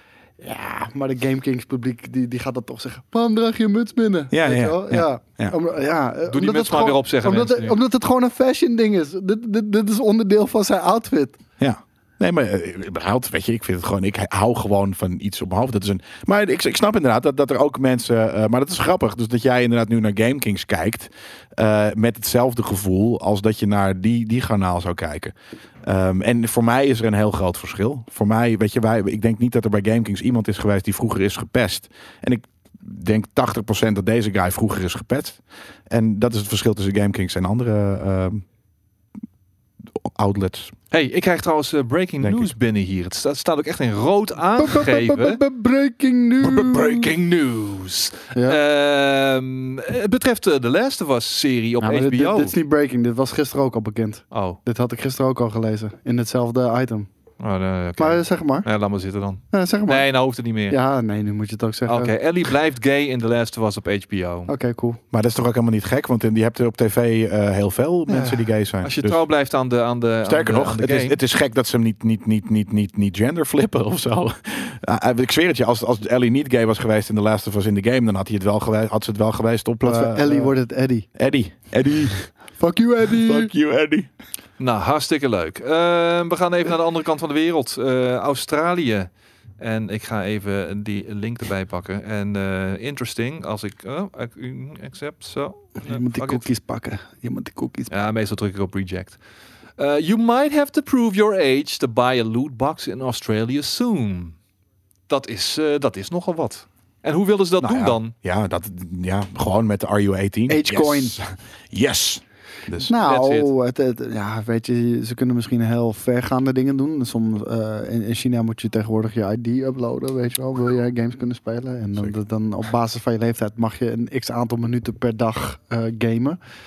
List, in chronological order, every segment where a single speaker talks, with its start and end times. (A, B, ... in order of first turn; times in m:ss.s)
0:00.4-0:11.4 A
0:04.3-0:05.6 B
0:06.3-0:07.8 C
0:11.6-0:38.4 B
0:40.0-0:40.7 B
0:40.9-0:45.4 C
0:42.2-0:42.5 B
0:44.6-0:47.1 A
0:46.4-0:52.5 C
0:51.8-0:57.1 A
0:54.3-0:54.6 C
0:57.4-1:00.8 C
0:58.0-0:58.6 A
0:59.5-1:00.1 A
1:00.7-1:02.1 A
1:01.9-1:04.5 C
1:04.5-1:05.0 A
1:05.1-1:09.2 B
1:08.1-1:11.2 C
1:10.2-1:20.5 B
1:19.8-1:21.1 A
1:21.1-1:22.3 B
1:22.6-1:23.5 A
1:23.1-1:24.1 B
1:24.6-1:36.4 C
1:35.8-1:37.9 A
1:37.9-1:39.2 C
1:39.8-1:44.4 C
1:45.1-1:48.1 C
1:47.6-1:52.9 B
1:50.5-1:51.2 A
1:52.8-2:06.4 A
1:53.0-1:53.5 C